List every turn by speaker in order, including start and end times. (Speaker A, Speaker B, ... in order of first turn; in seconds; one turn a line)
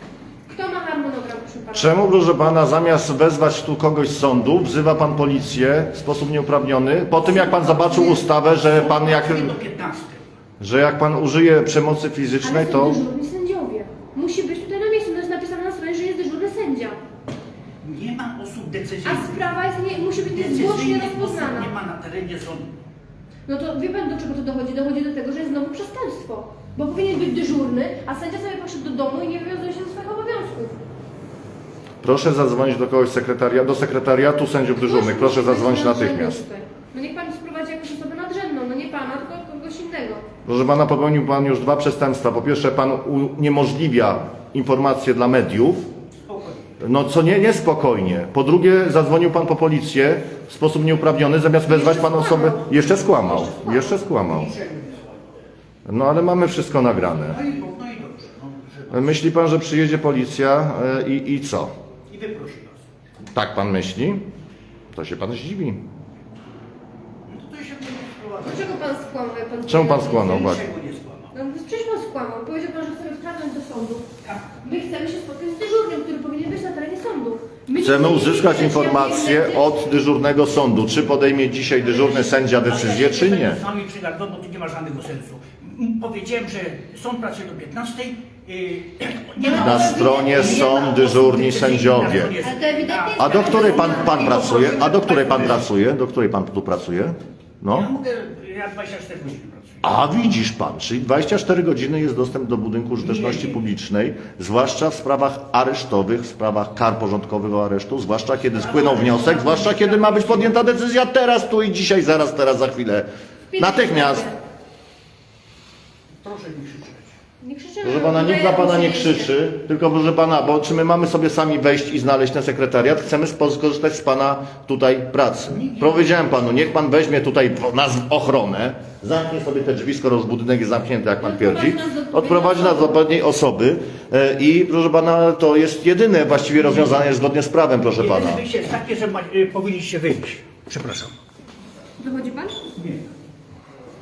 Speaker A: 0.5-2.0
Speaker B: 1.7-9.5
Speaker A: 7.2-8.2
Speaker C: 7.9-10.3
Speaker B: 10.6-13.0
Speaker A: 12.4-17.0
Speaker C: 17.8-19.4
Speaker A: 19.0-21.7
Speaker C: 20.2-22.8
Speaker A: 23.4-30.7
Speaker B: 32.0-36.4
Speaker A: 34.8-40.2
Speaker B: 40.4-45.9
Speaker C: 46.2-46.7
Speaker B: 46.8-54.5
Speaker A: 51.7-54.0
Speaker C: 54.0-55.4
Speaker B: 55.9-57.4
Speaker C: 57.2-59.2
Speaker B: 58.9-61.7
Speaker C: 62.1-62.8
Speaker B: 63.3-64.2
Speaker B: 64.9-65.8
Speaker C: 67.3-68.8
Speaker A: 68.4-70.4
Speaker B: 69.7-70.6
Speaker C: 70.0-71.3
Speaker A: 71.3-74.1
Speaker C: 74.2-74.5
Speaker A: 74.6-79.7
Speaker B: 77.8-83.6
Speaker C: 81.8-95.7
Speaker A: 89.4-90.9
Speaker B: 89.5-92.3
Speaker A: 92.4-94.3
Speaker B: 93.2-97.9
Speaker C: 97.7-99.8
Speaker B: 99.8-114.3
Speaker C: 103.0-103.6
Speaker C: 108.5-110.5
Speaker A: 113.5-114.4
Speaker C: 116.2-117.1
Speaker A: 117.4-119.3
Speaker B: 117.8-138.4
Speaker C: 125.5-126.5
Speaker A: 131.2-133.0
Speaker C: 136.6-137.1
Speaker C: 137.9-141.1
Speaker A: 142.0-142.6
Speaker C: 142.8-143.1